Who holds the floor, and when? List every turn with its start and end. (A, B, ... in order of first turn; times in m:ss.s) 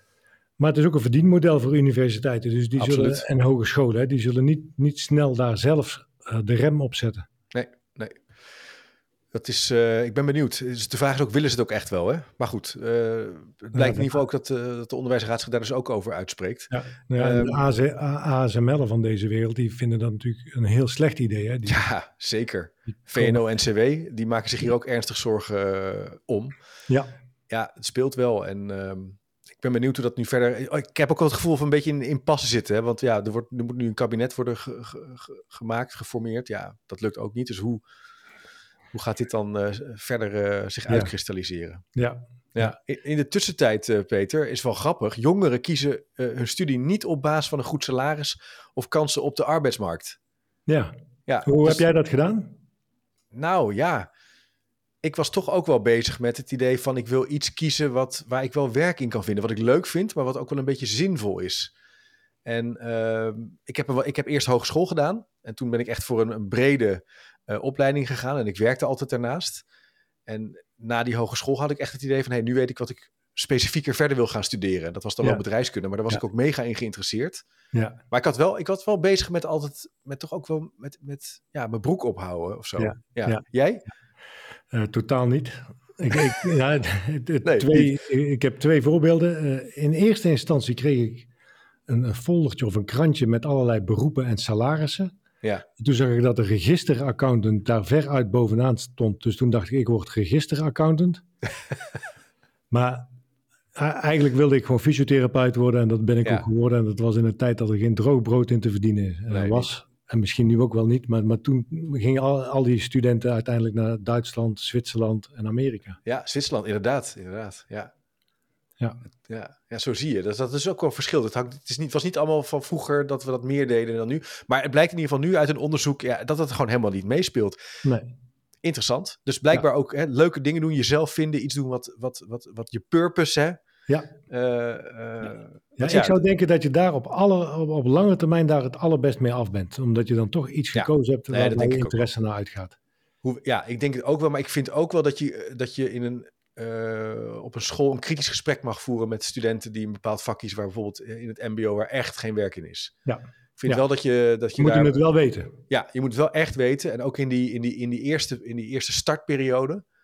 0:00.6-0:07.3 A
0:02.8-0:03.2 B
0:07.5-0:08.3 B
0:09.3-0:17.6 B
0:13.7-0:14.2 A
0:16.7-0:21.8 A
0:21.7-0:26.6 B
0:23.2-0:23.4 A
0:27.5-0:37.8 B
0:38.9-0:41.8 B
0:41.9-0:42.8 A
0:42.6-0:50.2 B
0:50.7-0:50.9 A
0:51.3-0:51.9 B
0:51.4-0:52.6 A
0:53.3-0:54.1 B
0:55.0-1:01.7 B
1:02.4-1:09.6 B
1:10.3-1:17.4 B
1:17.7-1:18.0 A
1:18.1-1:23.8 B
1:22.8-1:23.4 A
1:24.7-1:31.3 A
1:27.4-1:27.9 B
1:31.9-1:35.1 A
1:35.8-1:41.2 A
1:42.7-1:43.1 A
1:43.8-1:56.0 A
1:49.3-1:49.7 B
1:56.0-1:57.9 B
1:59.3-2:07.6 B
2:07.8-2:08.1 A
2:08.6-2:13.6 B
2:14.3-2:16.2 B
2:15.8-2:22.8 A
2:20.7-2:22.1 B
2:23.2-2:32.9 B
2:33.1-2:33.8 A
2:33.6-2:35.0 B
2:34.6-2:35.6 A
2:35.7-2:39.8 B